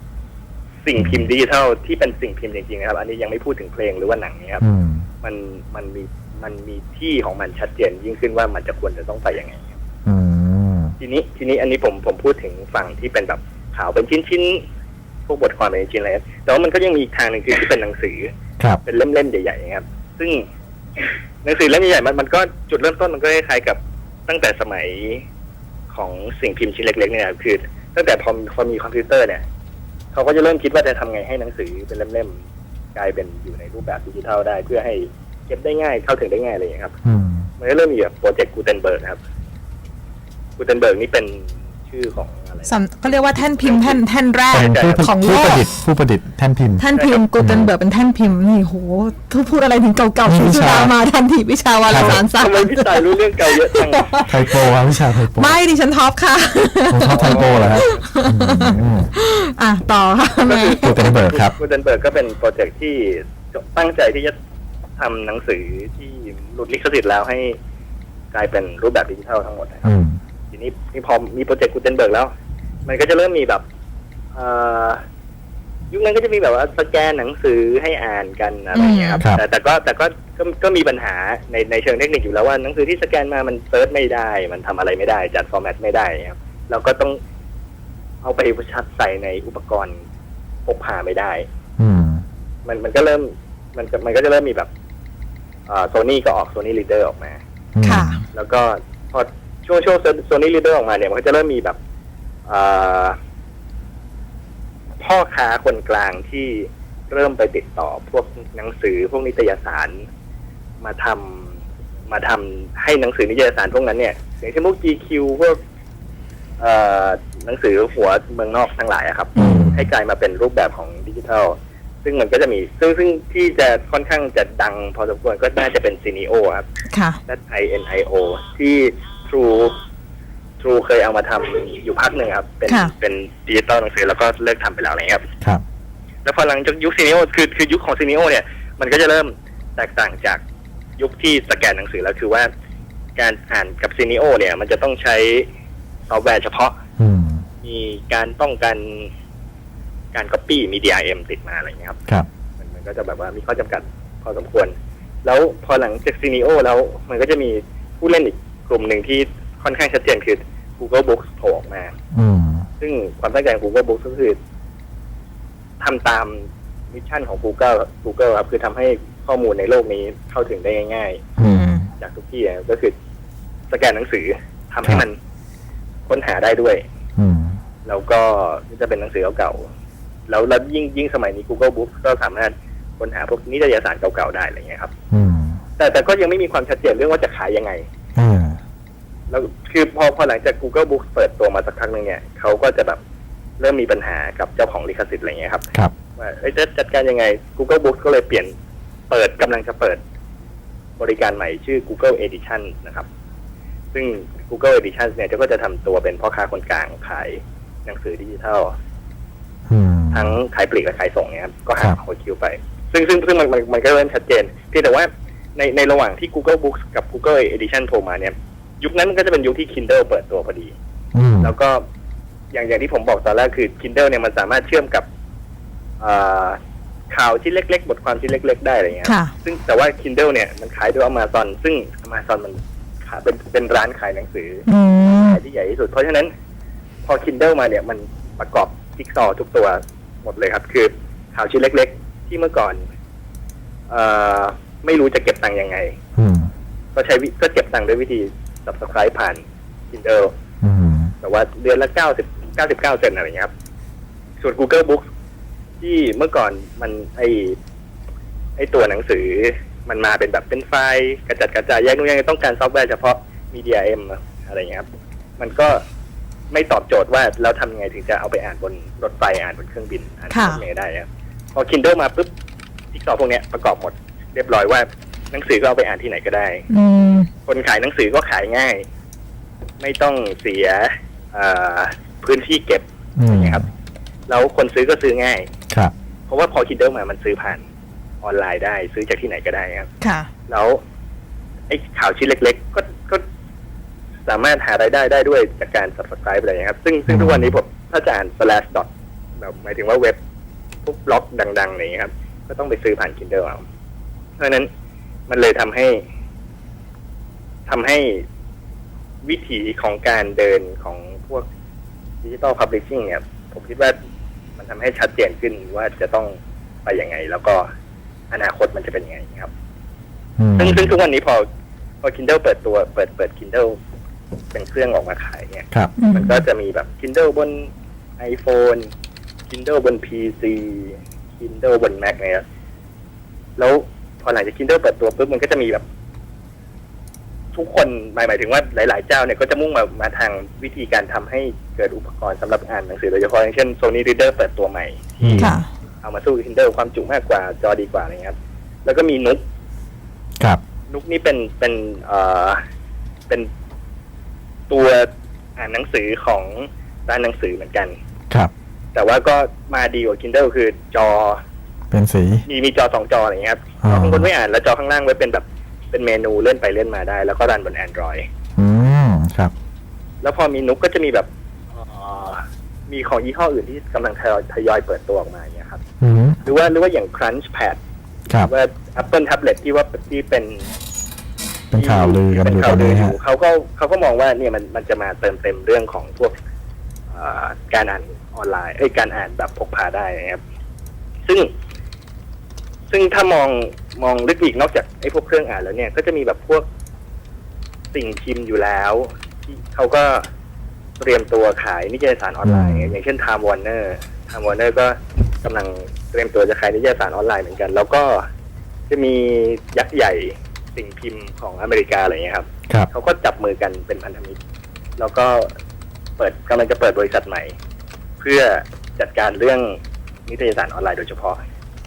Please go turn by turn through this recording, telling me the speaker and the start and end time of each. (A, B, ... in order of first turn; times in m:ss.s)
0:00.8-0:04.6 A
0:04.6-0:05.1 B
0:05.2-0:09.7 A
0:10.0-0:10.9 B
0:11.0-0:14.6 A
0:15.3-0:18.3 A
0:18.8-0:20.4 A
0:21.0-0:25.2 A
0:25.9-0:29.4 A
0:30.1-0:32.4 A
0:32.9-0:36.9 A
0:37.0-0:37.5 B
0:37.6-0:39.2 A
0:40.6-0:45.0 A
0:42.6-0:45.6 C
0:44.5-0:46.9 B
0:46.8-0:54.4 C
0:46.9-0:47.2 A
0:47.4-0:47.7 B
0:50.2-0:50.9 B
0:51.9-0:52.2 B
0:51.9-0:54.5 A
0:54.3-0:55.6 B
0:55.3-1:01.4 C
0:56.9-0:59.1 B
0:57.1-0:58.0 A
1:00.4-1:04.3 A
1:00.8-1:01.5 B
1:05.0-1:07.6 A
1:08.3-1:09.8 A
1:09.8-1:10.2 B
1:10.5-1:12.3 A
1:12.8-1:13.6 A
1:14.3-1:15.0 A
1:15.9-1:27.2 A
1:18.7-1:19.2 C
1:28.2-1:30.0 A
1:30.6-1:31.5 A
1:31.8-1:32.2 B
1:32.6-1:34.7 A
1:35.7-1:37.4 A
1:37.7-1:38.2 B
1:37.8-1:38.2 C
1:38.3-1:41.8 A
1:42.4-1:43.2 A
1:45.0-1:50.0 A
1:50.8-1:51.5 A
1:52.1-1:55.6 A
1:56.6-2:06.6 A
1:59.4-1:59.9 B
2:06.9-2:07.2 C
2:07.2-2:09.8 A
2:10.6-2:15.2 A
2:12.7-2:12.9 C
2:16.2-2:20.4 A
2:21.0-2:22.5 A
2:23.2-2:25.5 A
2:26.1-2:26.8 A
2:27.0-2:27.4 B
2:27.6-2:29.1 A
2:30.1-2:32.0 A
2:32.6-2:34.7 A
2:35.2-2:41.9 A
2:42.1-2:42.7 B
2:42.8-2:44.4 A
2:45.8-2:51.2 A
2:51.4-2:51.9 B
2:51.4-2:51.8 C
2:52.0-2:52.9 A
2:53.7-2:55.2 A
2:56.1-2:56.8 A
2:57.2-2:57.6 B
2:57.8-2:59.7 A
3:00.3-3:04.9 A
3:05.1-3:05.6 B
3:05.8-3:07.8 A
3:08.2-3:08.6 B
3:09.3-3:13.0 A
3:13.6-3:15.6 A
3:16.2-3:18.5 A
3:19.1-3:20.0 A
3:21.0-3:23.0 A
3:23.9-3:28.7 A
3:29.7-3:30.4 B
3:30.1-3:40.7 A
3:41.1-3:41.5 B
3:41.4-3:41.8 A
3:42.5-3:45.0 A
3:46.0-3:46.6 A
3:47.1-3:56.3 A
3:49.0-3:49.3 C
3:54.7-3:55.4 C
3:57.0-4:02.8 A
4:03.9-4:06.0 A
4:06.2-4:06.5 B
4:06.9-4:10.3 A
4:10.6-4:11.1 B
4:11.2-4:13.5 A
4:14.4-4:15.0 A
4:15.8-4:17.6 A
4:18.6-4:24.9 A
4:25.4-4:25.8 A
4:26.5-4:32.3 A
4:30.3-4:30.6 C
4:32.9-4:36.6 A
4:36.7-4:37.3 C
4:37.4-4:38.8 A
4:39.8-4:43.6 A
4:43.2-4:43.6 B
4:44.3-4:45.5 A
4:46.3-4:47.6 A
4:48.2-4:49.9 A
4:50.0-4:50.3 C
4:50.5-4:50.8 A
4:51.7-4:53.2 A
4:54.3-4:58.9 A
4:57.1-4:57.5 B
4:59.4-5:00.2 A
5:00.8-5:03.6 A
5:04.4-5:04.7 A
5:05.3-5:06.0 A
5:07.7-5:08.2 A
5:09.2-5:11.5 A
5:12.2-5:14.0 A
5:14.6-5:17.7 A
5:18.3-5:19.5 A
5:20.4-5:21.0 B
5:20.6-5:21.4 A
5:22.0-5:23.8 A
5:24.5-5:28.9 A
5:26.0-5:26.4 C
5:29.5-5:32.4 A
5:33.6-5:35.8 A
5:37.5-5:49.4 A
5:45.2-5:45.5 B
5:45.4-5:45.6 C
5:50.9-5:52.6 A
5:54.7-5:58.0 A
5:58.9-6:01.4 A
6:01.9-6:02.4 B
6:02.4-6:08.2 A
6:03.8-6:04.3 B
6:08.6-6:09.5 B
6:10.2-6:15.8 A
6:16.0-6:16.4 B
6:16.4-6:17.8 A
6:18.4-6:20.7 A
6:21.7-6:23.2 B
6:21.7-6:26.3 A
6:27.1-6:30.4 A
6:32.9-6:36.6 A
6:37.9-6:40.2 A
6:41.0-6:48.2 A
6:42.4-6:42.9 B
6:48.9-6:54.4 A
6:55.0-6:55.5 A
6:56.2-6:57.5 A
6:58.2-7:01.4 A